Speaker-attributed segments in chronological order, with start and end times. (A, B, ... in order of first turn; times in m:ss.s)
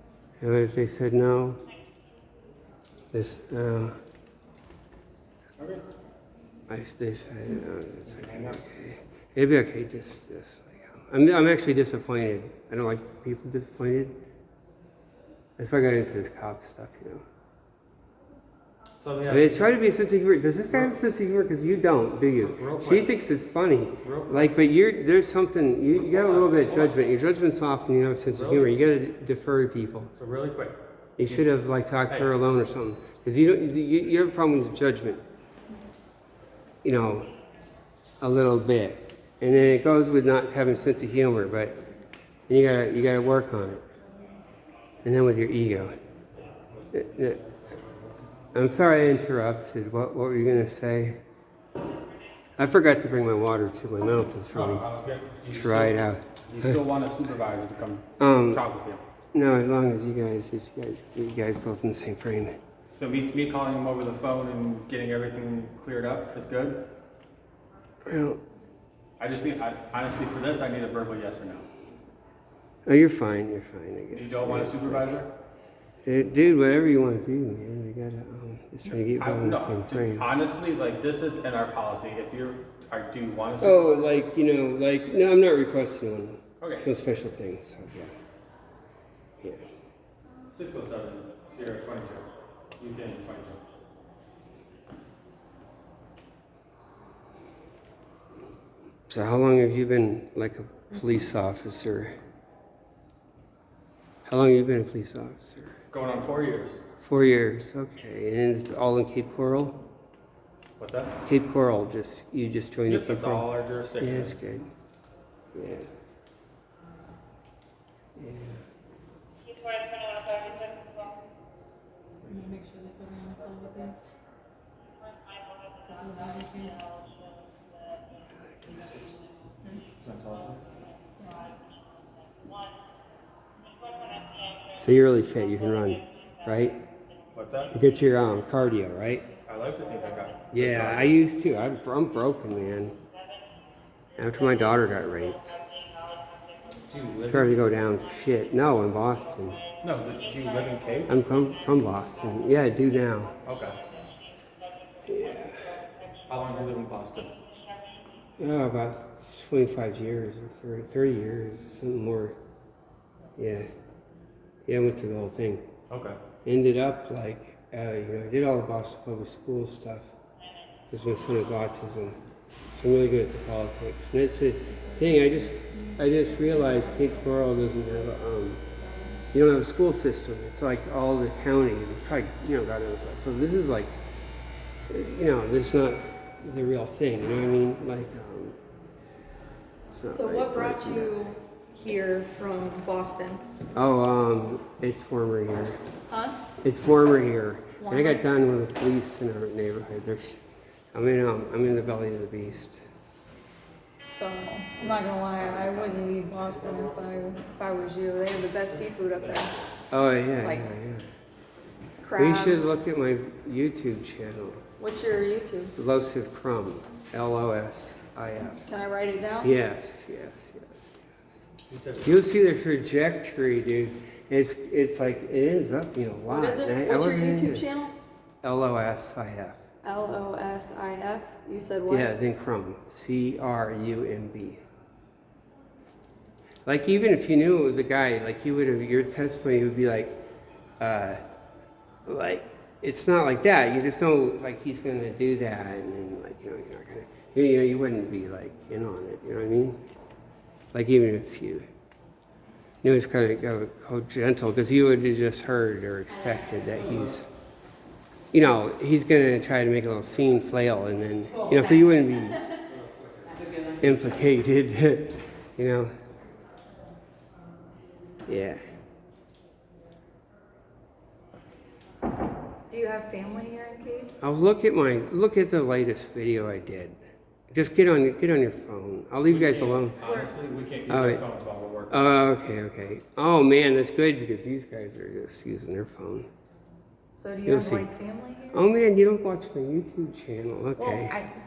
0:00.4-0:01.6 A
0:03.1-0:04.0 A
0:05.6-0:05.8 B
0:06.7-0:14.2 A
0:08.1-0:08.6 B
0:15.6-0:17.2 A
0:19.0-0:19.8 B
0:19.3-0:30.1 A
0:20.7-0:21.0 B
0:22.4-0:23.1 B
0:24.0-0:24.6 B
0:26.0-0:27.0 B
0:28.3-0:28.8 B
0:30.2-0:31.5 B
0:31.2-0:35.2 A
0:36.8-0:37.3 A
0:38.2-0:41.8 A
0:42.5-0:43.8 A
0:45.0-0:45.9 A
0:46.9-0:47.4 A
0:48.5-0:51.2 A
0:52.6-0:54.8 A
0:54.5-0:59.0 B
0:55.5-0:56.3 A
0:58.2-0:58.6 A
0:59.3-1:02.6 A
1:03.0-1:06.8 B
1:08.0-1:08.4 A
1:09.2-1:11.7 B
1:12.8-1:15.2 A
1:14.1-1:15.3 B
1:16.0-1:20.3 A
1:18.8-1:24.0 B
1:23.6-1:28.1 A
1:26.6-1:26.9 B
1:30.5-1:33.6 B
1:39.1-1:42.1 A
1:44.2-1:45.8 A
1:45.9-1:46.8 B
1:47.0-1:49.8 A
1:50.8-1:51.2 B
1:51.2-1:54.7 A
1:52.8-1:54.4 B
1:55.5-1:55.9 A
1:58.2-1:58.6 A
2:02.2-2:03.9 C
2:03.1-2:03.9 D
2:05.8-2:06.8 C
2:08.5-2:09.0 A
2:10.0-2:10.6 B
2:14.8-2:16.8 A
2:17.3-2:17.7 B
2:17.7-2:19.3 A
2:19.5-2:21.2 B
2:20.5-2:23.0 A
2:24.2-2:25.6 A
2:26.9-2:27.6 B
2:27.2-2:29.6 A
2:29.8-2:31.2 B
2:31.1-2:33.3 A
2:33.4-2:33.8 B
2:35.1-2:35.7 A
2:36.3-2:37.3 B
2:38.4-2:42.4 A
2:43.4-2:43.7 A
2:44.7-2:45.6 A
2:45.9-2:46.2 B
2:46.4-2:50.1 A
2:50.9-2:52.2 A
2:52.7-2:58.6 A
2:59.3-3:03.9 A
3:04.9-3:08.6 A
3:09.9-3:11.2 A
3:10.1-3:13.4 D
3:13.7-3:15.8 A
3:16.1-3:16.4 D
3:16.6-3:20.4 A
3:17.8-3:18.2 D
3:20.9-3:22.8 A
3:24.1-3:29.5 D
3:25.4-3:26.1 B
3:29.1-3:29.6 B
3:29.9-3:31.1 A
3:32.0-3:32.9 D
3:32.2-3:34.6 A
3:34.8-3:35.7 D
3:35.8-3:38.6 A
3:38.6-3:39.5 D
3:39.4-3:41.2 A
3:41.7-3:42.2 B
3:42.0-3:47.6 A
3:46.3-3:48.0 D
3:48.4-3:49.6 A
3:49.8-3:52.1 D
3:51.9-3:54.6 A
3:56.7-4:00.2 A
4:00.8-4:01.2 A
4:02.1-4:09.8 A
4:10.7-4:11.7 A
4:12.8-4:17.2 A
4:16.2-4:16.8 D
4:18.3-4:22.4 A
4:22.7-4:23.3 B
4:23.4-4:23.7 C
4:23.8-4:25.9 A
4:28.2-4:28.6 A
4:32.7-4:34.2 D
4:34.2-4:37.0 A
4:37.5-4:40.0 A
4:39.2-4:42.1 B
4:40.0-4:40.3 D
4:40.9-4:41.2 A
4:41.9-4:46.3 A
4:47.2-4:48.7 D
4:47.4-4:47.9 A
4:48.5-4:51.2 A
4:50.8-4:51.3 D